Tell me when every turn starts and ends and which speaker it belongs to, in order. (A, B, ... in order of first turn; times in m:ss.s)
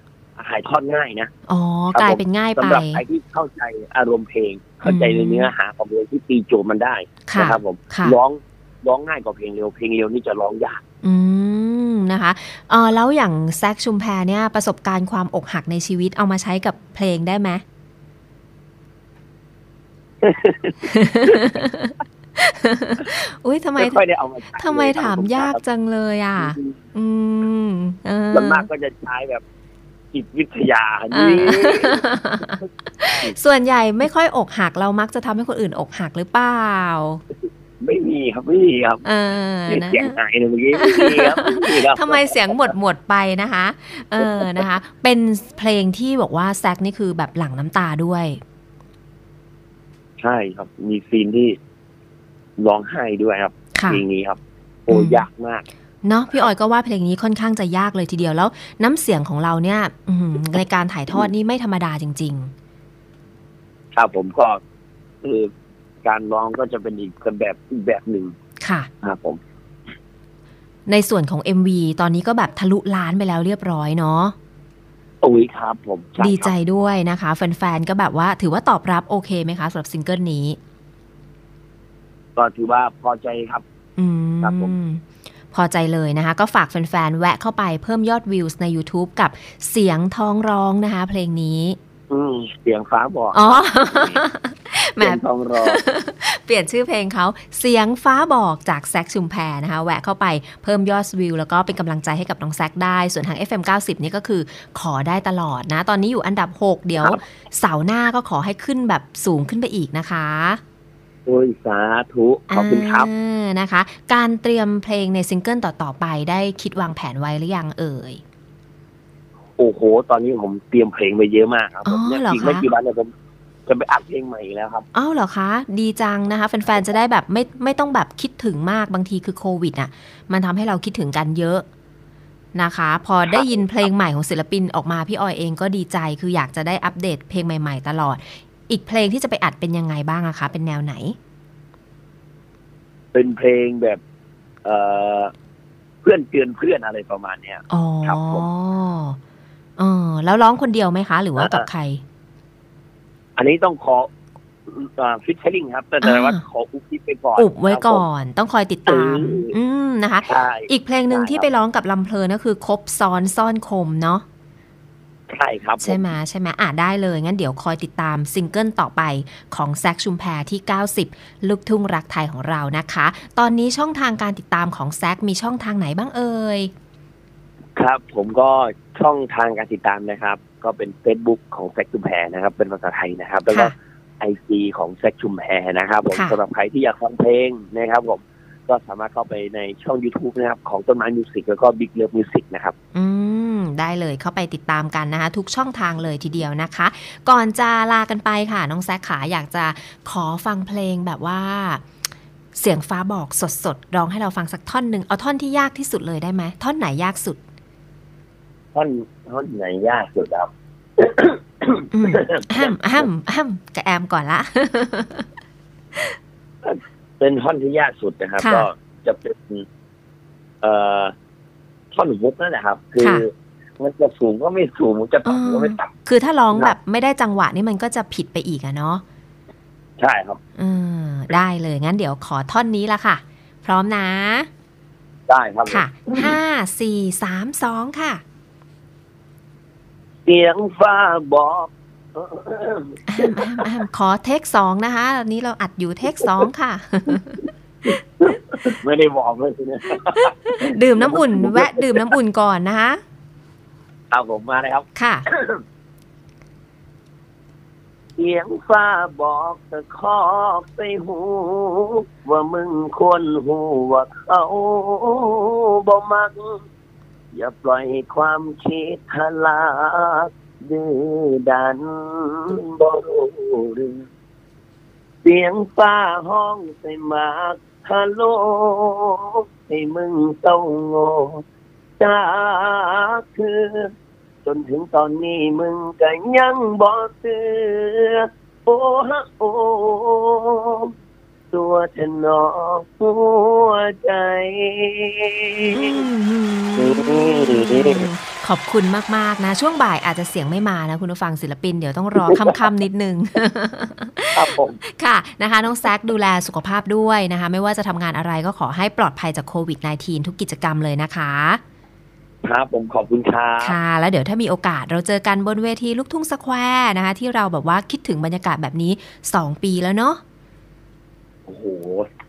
0:00.4-0:01.3 A
0:01.5-0:03.0 B
0:01.9-0:10.8 A
0:04.8-0:05.5 B
0:07.3-0:08.2 B
0:11.0-0:17.6 B
0:20.2-0:20.8 A
0:20.8-0:24.0 B
0:23.8-0:25.6 A
0:24.6-0:28.7 B
0:26.4-0:26.8 A
0:28.3-0:29.4 A
0:30.1-0:32.0 A
0:31.1-0:37.2 B
0:37.8-0:39.0 A
0:39.0-0:40.1 B
0:39.7-0:42.7 A
0:40.7-0:48.4 B
0:44.2-0:44.6 A
0:50.2-0:51.6 A
0:52.6-0:55.6 A
0:53.7-0:54.0 B
0:54.9-0:55.2 B
0:56.0-1:02.5 B
1:03.9-1:04.6 A
1:05.2-1:05.5 A
1:06.0-1:08.3 A
1:08.6-1:08.9 B
1:09.0-1:09.4 A
1:10.9-1:14.3 B
1:15.2-1:16.5 A
1:16.2-1:20.6 B
1:22.4-1:23.6 A
1:24.0-1:31.8 B
1:24.4-1:24.7 A
1:32.1-1:34.2 A
1:33.3-1:50.6 B
1:35.0-1:35.8 A
1:51.2-1:53.1 A
1:52.5-1:58.2 B
1:59.6-2:03.1 A
2:01.8-2:02.6 B
2:03.7-2:04.8 A
2:04.9-2:11.6 B
2:12.5-2:21.2 B
2:13.3-2:13.8 A
2:23.1-2:24.0 A
2:24.6-2:25.3 A
2:26.0-2:28.5 A
2:27.7-2:29.2 B
2:29.8-2:32.0 B
2:31.4-2:31.6 A
2:33.4-2:34.1 A
2:34.7-2:38.0 A
2:36.0-2:36.4 B
2:37.4-2:44.2 B
2:38.9-2:39.5 A
2:40.2-2:41.5 A
2:45.3-2:46.1 A
2:45.8-2:56.7 B
2:57.8-3:12.7 A
3:03.5-3:03.7 B
3:06.1-3:06.4 B
3:12.9-3:21.8 B
3:22.5-3:27.4 B
3:28.7-3:33.1 A
3:31.9-3:35.2 B
3:36.6-3:39.6 A
3:38.4-3:38.7 B
3:40.6-3:41.1 A
3:41.9-3:45.9 A
3:43.0-3:43.2 B
3:45.2-3:49.0 B
3:50.0-3:50.4 A
3:50.6-3:54.5 B
3:55.3-3:56.4 A
3:55.7-3:58.2 B
4:00.2-4:03.6 A
4:03.1-4:07.4 B
4:07.9-4:12.1 A
4:10.2-4:13.0 B
4:14.1-4:15.6 A
4:15.0-4:15.2 B
4:18.2-4:26.6 A
4:27.3-4:34.0 A
4:35.2-4:41.4 A
4:42.0-4:43.9 A
4:44.4-4:50.9 A
4:51.5-4:56.0 A
4:55.7-5:11.6 B
4:56.8-4:58.1 A
5:04.3-5:04.8 A
5:12.4-5:13.8 A
5:13.6-5:20.2 B
5:21.5-5:22.1 A